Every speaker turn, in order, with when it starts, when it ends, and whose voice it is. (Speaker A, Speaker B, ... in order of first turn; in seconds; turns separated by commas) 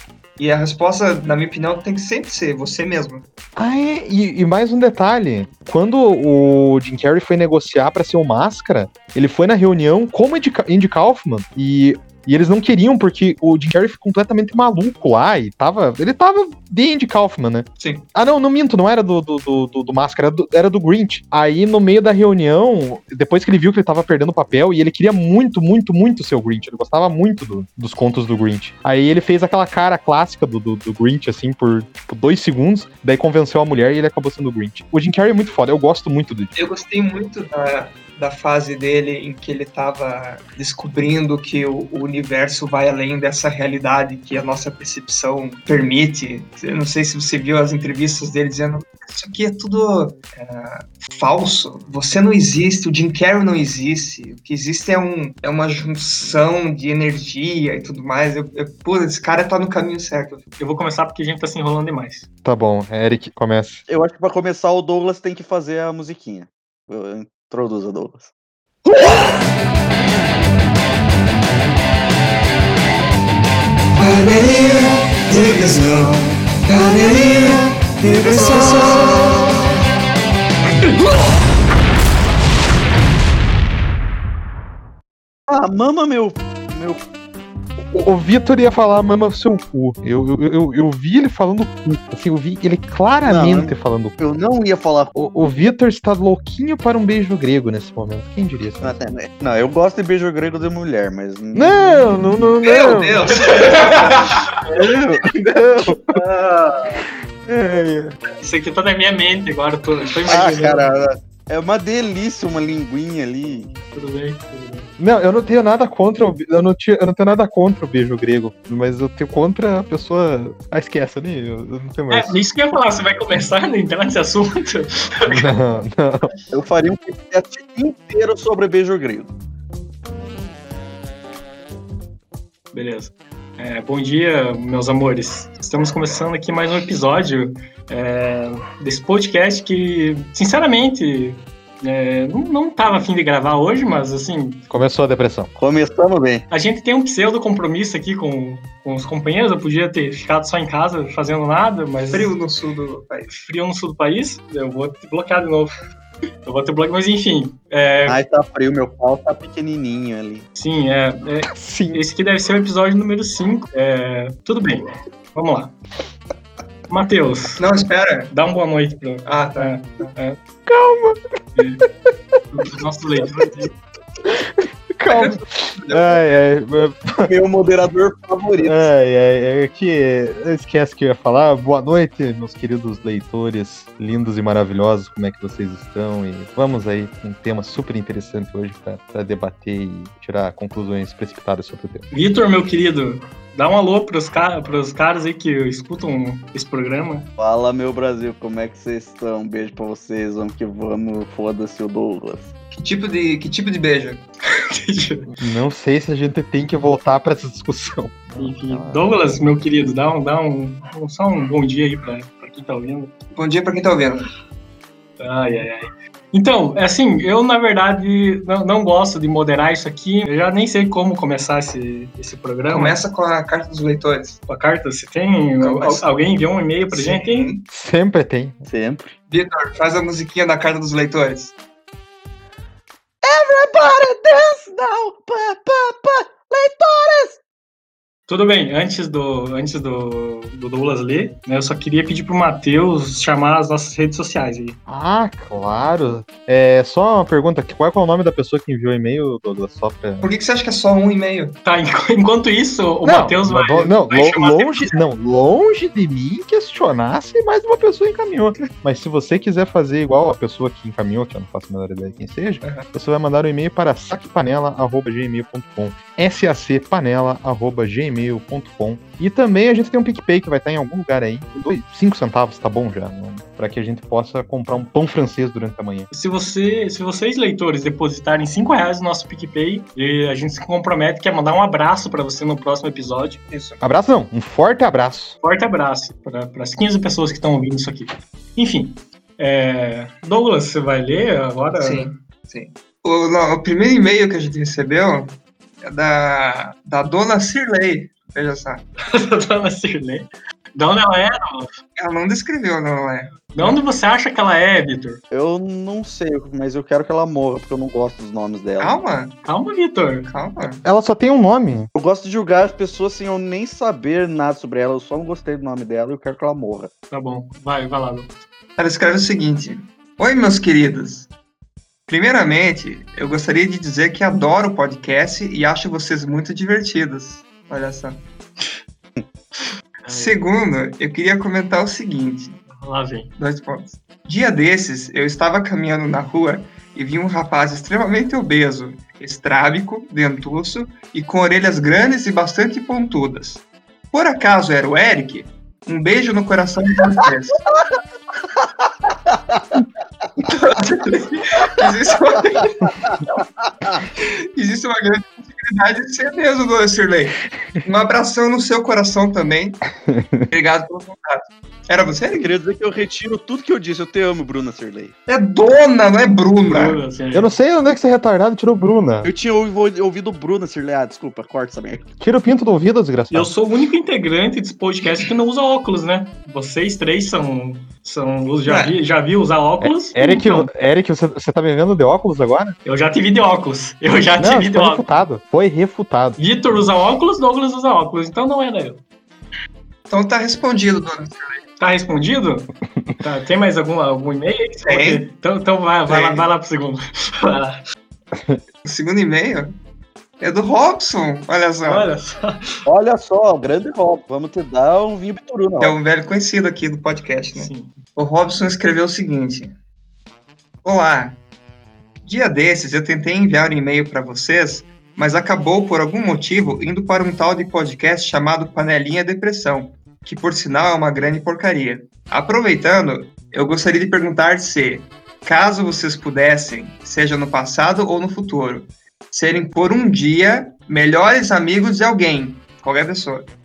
Speaker A: 0.4-3.2, Speaker B: 3.5-36.5, Speaker A: 17.8-18.0, Speaker A: 36.5-60.4, Speaker C: 60.6-62.2, Speaker B: 62.4-63.8, Speaker D: 63.9-68.3, Speaker D: 68.9-69.2, Speaker A: 74.0-75.8, Speaker D: 75.3-76.2, Speaker A: 76.7-77.6, Speaker D: 77.8-79.4, Speaker D: 85.5-87.0, Speaker B: 87.9-94.2, Speaker D: 93.2-95.2, Speaker B: 95.1-99.0, Speaker D: 98.8-102.2, Speaker B: 101.5-103.3, Speaker A: 102.6-104.4, Speaker D: 104.7-107.0, Speaker B: 104.8-106.2, Speaker B: 107.5-108.2, Speaker C: 108.3-110.9, Speaker D: 110.3-113.7, Speaker C: 113.9-114.9, Speaker B: 115.0-122.3, Speaker C: 122.1-125.5, Speaker B: 125.3-126.3, Speaker D: 126.5-129.3, Speaker C: 132.7-144.7, Speaker B: 144.7-145.5, Speaker D: 145.5-146.4, Speaker C: 146.5-152.3, Speaker A: 152.1-153.3, Speaker C: 153.3-155.7, Speaker C: 156.4-158.2, Speaker D: 158.1-160.4, Speaker C: 160.6-165.7, Speaker B: 161.5-162.0, Speaker C: 166.9-167.6, Speaker A: 167.6-168.3, Speaker C: 168.3-170.4, Speaker A: 169.2-169.8, Speaker B: 170.7-171.2, Speaker C: 171.6-171.8, Speaker C: 172.5-173.7, Speaker B: 174.3-177.3, Speaker A: 175.1-176.2, Speaker D: 177.2-178.8, Speaker B: 178.6-192.0, Speaker C: 192.1-197.3, Speaker D: 197.4-202.5, Speaker A: 202.7-204.2, Speaker C: 204.4-205.3, Speaker B: 205.4-209.1, Speaker C: 208.4-213.1, Speaker A: 213.3-214.3, Speaker C: 215.2-223.0, Speaker A: 222.7-224.4, Speaker C: 224.5-227.5, Speaker A: 225.6-226.1, Speaker A: 226.9-227.7, Speaker B: 227.7-228.6, Speaker D: 228.7-229.1, Speaker A: 229.3-231.5, Speaker D: 233.2-237.4, Speaker C: 238.3-244.8, Speaker B: 244.9-250.3, Speaker A: 250.2-251.6, Speaker C: 251.6-254.9, Speaker B: 253.0-276.1, Speaker C: 276.1-283.4, Speaker A: 283.5-283.8, Speaker B: 283.8-285.4, Speaker C: 285.4-292.1, Speaker A: 291.8-298.8, Speaker C: 299.0-301.8, Speaker A: 302.0-303.8, Speaker C: 303.5-305.2, Speaker D: 305.3-308.9, Speaker A: 308.8-309.4, Speaker C: 309.4-310.3, Speaker A: 310.3-310.8, Speaker B: 310.8-311.9, Speaker D: 311.9-316.9, Speaker C: 317.1-318.4, Speaker A: 318.8-321.3, Speaker A: 322.1-328.2, Speaker C: 330.0-330.4, Speaker A: 330.1-332.6, Speaker C: 332.7-333.3, Speaker A: 333.4-347.6, Speaker D: 349.3-349.6, Speaker A: 350.4-352.9, Speaker D: 352.8-354.0, Speaker A: 354.2-359.8, Speaker B: 360.0-360.5, Speaker A: 360.5-362.5, Speaker D: 362.3-365.1, Speaker A: 365.3-367.0, Speaker C: 366.6-367.5, Speaker B: 367.3-369.3, Speaker D: 369.2-372.1, Speaker B: 372.2-373.5, Speaker C: 373.3-380.7, Speaker A: 378.6-379.0, Speaker B: 379.8-382.8, Speaker C: 382.8-385.0, Speaker B: 384.4-386.4, Speaker C: 386.4-389.0, Speaker A: 390.1-391.6, Speaker C: 391.8-392.7, Speaker C: 393.2-397.8, Speaker A: 394.9-395.3, Speaker A: 396.1-396.5, Speaker B: 398.3-398.6, Speaker A: 398.8-399.7, Speaker A: 400.4-402.1, Speaker C: 401.8-402.9, Speaker D: 402.9-406.0, Speaker A: 405.8-409.7, Speaker C: 407.5-407.9, Speaker A: 410.8-411.4, Speaker A: 412.2-433.5